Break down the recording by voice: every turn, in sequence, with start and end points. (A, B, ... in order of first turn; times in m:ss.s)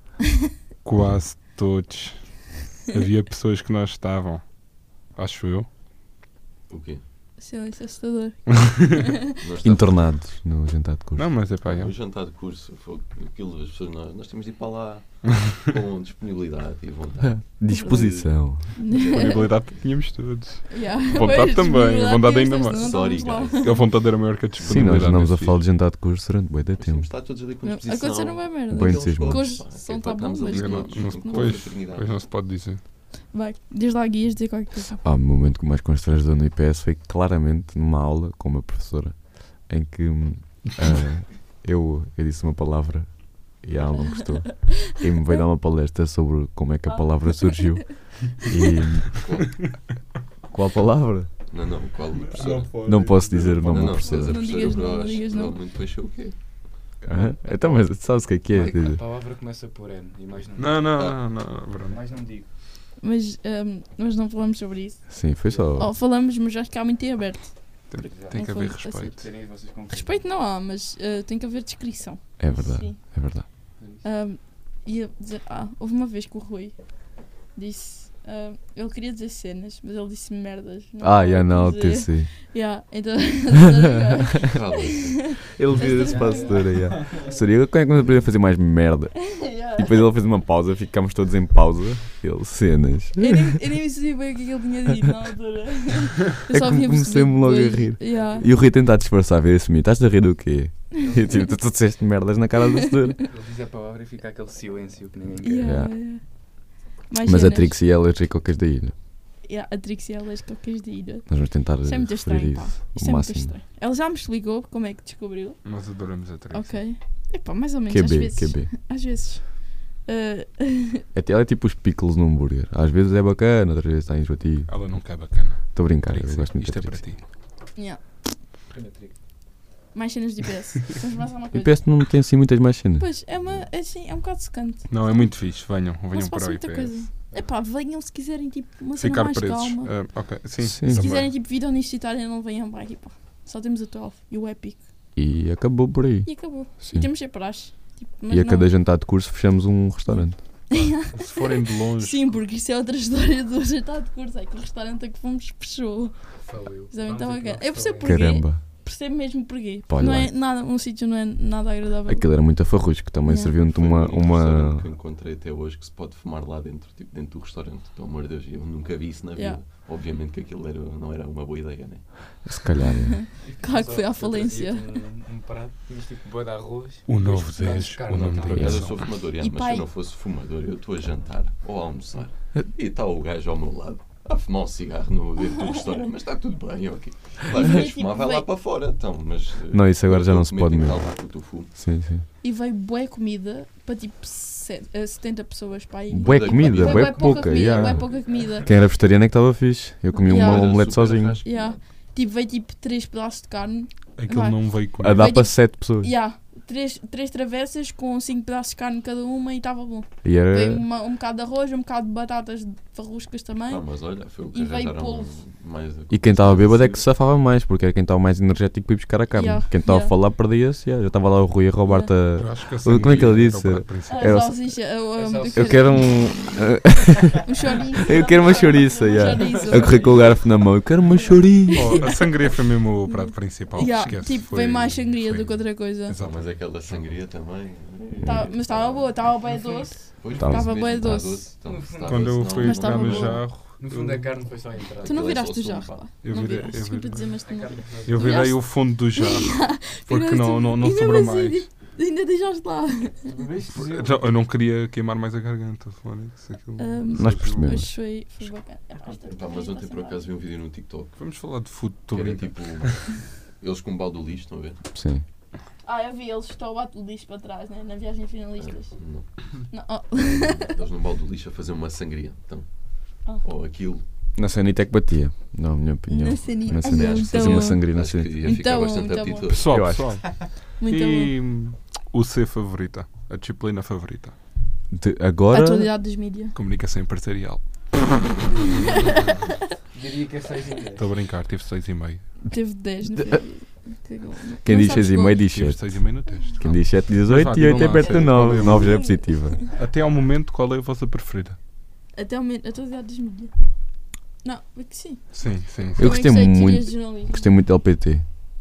0:00.8-0:05.7 A
0:01.0-0:01.2 B
0:06.7-0:07.0 C
0:07.4-0:09.2 D
0:09.4-0:10.1 C
0:09.6-0:11.4 B
0:11.2-0:11.9 A
0:11.6-0:19.8 C
0:17.2-0:18.6 B
0:17.7-0:19.5 D
0:19.0-0:25.6 A
0:20.7-0:23.9 D
0:22.8-0:24.0 C
0:24.6-0:25.3 C
0:24.6-0:27.0 B
0:26.8-0:32.1 C
0:27.6-0:31.6 D
0:28.7-0:29.6 B
0:30.5-0:32.8 A
0:33.3-0:35.0 D
0:35.0-0:49.2 B
0:44.6-0:44.8 D
0:46.9-0:47.8 D
0:49.2-0:49.6 C
0:50.5-0:51.3 B
0:51.5-0:52.8 C
0:52.1-0:54.0 A
0:52.8-0:54.5 B
0:53.6-0:56.4 C
0:53.9-0:55.6 D
0:57.0-0:59.0 B
0:58.5-1:01.1 E
1:00.6-1:02.0 A
1:00.9-1:01.2 C
1:01.8-1:02.5 E
1:03.0-1:13.5 D
1:05.1-1:05.9 B
1:05.5-1:05.8 E
1:07.9-1:09.2 A
1:08.0-1:08.6 E
1:09.1-1:10.2 E
1:12.4-1:13.4 B
1:13.8-1:14.0 E
1:14.0-1:26.8 D
1:21.0-1:22.3 B
1:24.4-1:25.6 C
1:25.6-1:33.6 B
1:26.0-1:27.3 E
1:29.4-1:30.0 D
1:33.2-1:38.5 D
1:36.5-1:43.2 B
1:38.1-1:38.5 E
1:43.3-1:45.8 E
1:45.4-1:47.8 D
1:45.6-1:45.9 B
1:47.2-1:48.9 B
1:49.4-1:55.9 D
1:51.3-1:53.5 B
1:55.6-1:56.8 A
1:56.5-2:01.0 D
1:57.9-1:58.7 B
2:01.1-2:07.0 B
2:04.7-2:07.2 A
2:07.7-2:08.2 D
2:08.7-2:09.2 E
2:09.9-2:11.8 D
2:11.5-2:13.3 B
2:13.0-2:15.6 D
2:14.9-2:17.1 A
2:16.1-2:20.3 D
2:19.0-2:21.3 A
2:20.6-2:21.0 B
2:20.8-2:24.8 D
2:25.1-2:27.1 B
2:26.2-2:28.7 D
2:28.3-2:30.4 B
2:30.1-2:42.3 D
2:30.8-2:32.4 A
2:36.4-2:38.3 E
2:38.0-2:38.6 B
2:39.9-2:40.3 B
2:42.0-2:44.8 B
2:43.2-2:43.5 D
2:43.6-2:52.4 C
2:49.4-2:49.6 D
2:52.4-2:53.2 B
2:52.9-2:54.8 D
2:53.4-2:58.8 E
2:57.1-2:59.0 A
2:58.1-3:11.7 C
2:58.5-2:58.8 B
2:59.4-2:59.9 D
3:07.5-3:08.4 D
3:09.7-3:11.1 B
3:11.7-3:12.2 B
3:12.4-3:18.7 D
3:16.1-3:21.4 B
3:16.2-3:17.5 C
3:16.9-3:18.7 E
3:20.2-3:20.9 D
3:20.2-3:21.8 C
3:21.4-3:33.8 D
3:24.2-3:25.4 A
3:25.0-3:26.1 B
3:30.2-3:30.8 B
3:33.7-3:37.1 C
3:34.5-3:35.4 D
3:36.1-3:44.8 B
3:39.3-3:40.1 D
3:41.8-3:42.1 D
3:42.4-3:44.4 A
3:42.9-3:43.3 C
3:44.1-3:46.2 D
3:45.2-3:46.2 E
3:45.5-3:47.5 B
3:47.4-3:50.4 D
3:48.0-3:52.1 B
3:49.1-3:50.4 E
3:51.7-3:56.2 D
3:51.7-3:56.4 A
3:56.2-3:59.2 C
3:58.0-4:01.5 D
3:59.4-3:59.9 E
4:00.2-4:03.5 C
4:00.3-4:01.1 B
4:01.6-4:02.5 E
4:02.1-4:04.3 A
4:02.5-4:03.4 D
4:03.8-4:05.3 E
4:05.0-4:06.0 C
4:05.0-4:13.3 D
4:06.2-4:07.4 A
4:07.4-4:08.5 E
4:08.0-4:11.7 A
4:13.2-4:14.2 E
4:13.7-4:17.9 A
4:16.8-4:20.2 D
4:17.2-4:17.9 B
4:19.0-4:19.4 E
4:19.3-4:21.2 C
4:21.2-4:23.0 A
4:22.1-4:24.8 C
4:24.9-4:25.2 B
4:25.8-4:28.9 D
4:28.6-4:29.5 C
4:29.7-4:30.7 D
4:30.1-4:34.0 C
4:34.3-4:38.5 B
4:36.1-4:39.5 D
4:36.6-4:40.0 C
4:39.5-4:44.3 A
4:39.7-4:40.3 B
4:40.4-4:41.3 D
4:44.9-4:45.9 B
4:45.5-4:46.5 D
4:46.5-4:49.4 A
4:48.8-4:49.6 D
4:49.9-4:51.1 E
4:51.0-4:52.5 A
4:52.4-4:55.5 D
4:53.1-4:53.4 B
4:54.6-4:59.6 B
4:55.4-4:59.2 A
4:57.7-4:59.6 D
4:59.7-5:01.6 A
5:02.1-5:03.5 D
5:04.4-5:07.5 D
5:05.3-5:06.3 A
5:06.0-5:08.2 B